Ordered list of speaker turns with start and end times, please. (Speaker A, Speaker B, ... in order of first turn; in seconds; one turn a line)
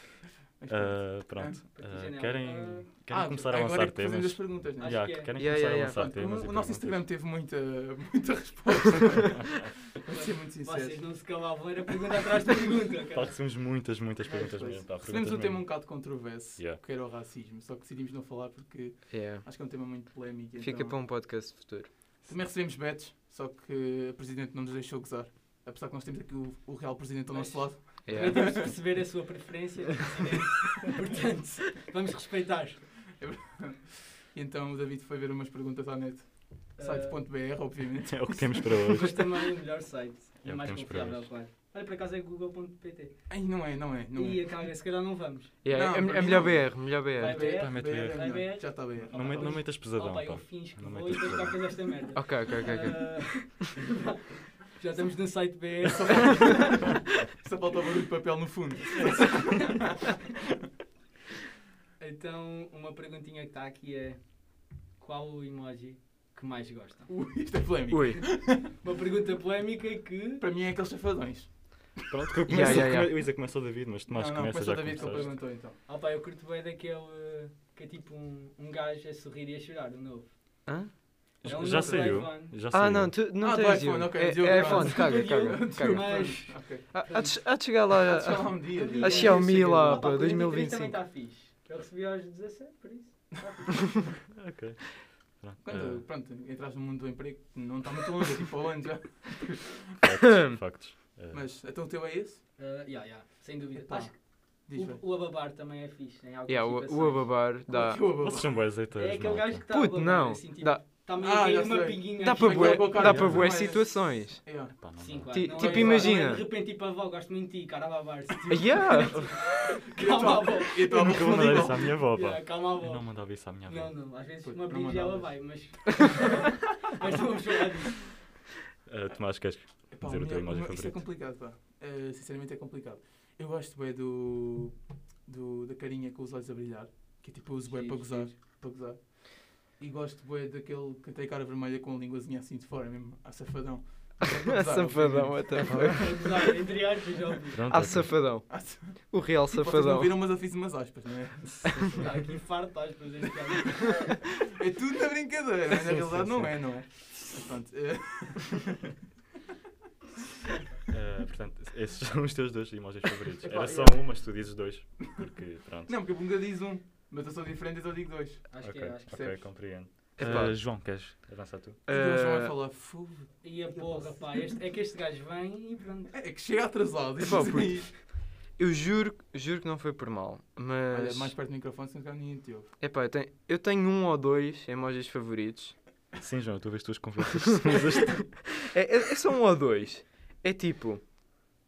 Speaker A: 0.6-1.6
Speaker B: 0.7-7.0
Speaker C: 1.7-2.9
Speaker A: 3.1-11.1
Speaker C: 4.8-5.4
Speaker D: 5.3-6.1
Speaker B: 9.2-9.5
Speaker C: 10.1-13.3
Speaker B: 13.1-16.8
Speaker A: 14.2-21.0
Speaker D: 19.1-19.7
Speaker D: 20.6-21.9
Speaker A: 22.2-28.8
Speaker C: 27.3-32.9
Speaker D: 28.0-28.6
Speaker A: 33.2-38.8
Speaker C: 36.8-37.2
Speaker B: 38.1-39.5
Speaker C: 38.9-43.1
Speaker B: 40.4-41.3
Speaker A: 43.3-44.7
Speaker C: 44.1-45.5
Speaker D: 45.6-47.5
Speaker A: 45.7-49.7
Speaker C: 47.1-57.0
Speaker B: 47.4-51.9
Speaker D: 52.1-53.5
Speaker A: 55.8-59.9
Speaker C: 62.0-67.1
Speaker A: 67.1-68.7
Speaker D: 67.9-68.2
Speaker C: 68.3-70.5
Speaker A: 70.4-72.0
Speaker B: 72.1-75.3
Speaker D: 72.5-73.2
Speaker A: 72.6-72.8
Speaker A: 74.1-75.8
Speaker C: 75.0-80.3
Speaker D: 80.7-80.9
Speaker B: 81.4-83.2
Speaker C: 81.4-82.6
Speaker A: 81.5-82.2
Speaker D: 82.7-91.0
Speaker A: 83.4-86.9
Speaker C: 84.4-87.4
Speaker A: 87.9-90.3
Speaker C: 88.8-94.0
Speaker B: 94.3-96.0
Speaker A: 95.6-99.8
Speaker B: 100.0-101.5
Speaker A: 101.3-102.4
Speaker C: 102.6-107.3
Speaker A: 103.7-105.0
Speaker D: 106.5-108.2
Speaker A: 107.7-108.6
Speaker B: 108.2-109.6
Speaker C: 108.9-113.0
Speaker D: 109.7-110.9
Speaker A: 111.2-114.7
Speaker D: 112.2-114.6
Speaker B: 112.9-113.8
Speaker B: 114.7-115.8
Speaker C: 115.0-128.1
Speaker D: 115.3-116.4
Speaker D: 118.5-119.2
Speaker A: 119.9-122.0
Speaker B: 120.9-124.1
Speaker A: 124.4-125.6
Speaker B: 128.8-131.1
Speaker A: 129.9-146.3
Speaker C: 137.7-138.3
Speaker D: 144.2-146.4
Speaker C: 145.6-147.6
Speaker B: 147.5-148.2
Speaker D: 147.7-150.2
Speaker A: 148.5-151.8
Speaker B: 151.4-152.2
Speaker C: 151.9-154.2
Speaker A: 154.4-158.9
Speaker B: 155.7-156.9
Speaker B: 160.9-166.2
Speaker A: 163.4-165.3
Speaker A: 165.8-168.5
Speaker C: 168.5-169.1
Speaker B: 168.6-171.8
Speaker A: 169.1-169.4
Speaker D: 170.2-170.7
Speaker D: 171.8-172.7
Speaker A: 171.9-174.6
Speaker C: 173.4-176.1
Speaker A: 176.1-177.9
Speaker D: 177.2-181.4
Speaker A: 180.9-182.7
Speaker D: 182.8-185.7
Speaker B: 186.2-188.4
Speaker D: 188.5-191.0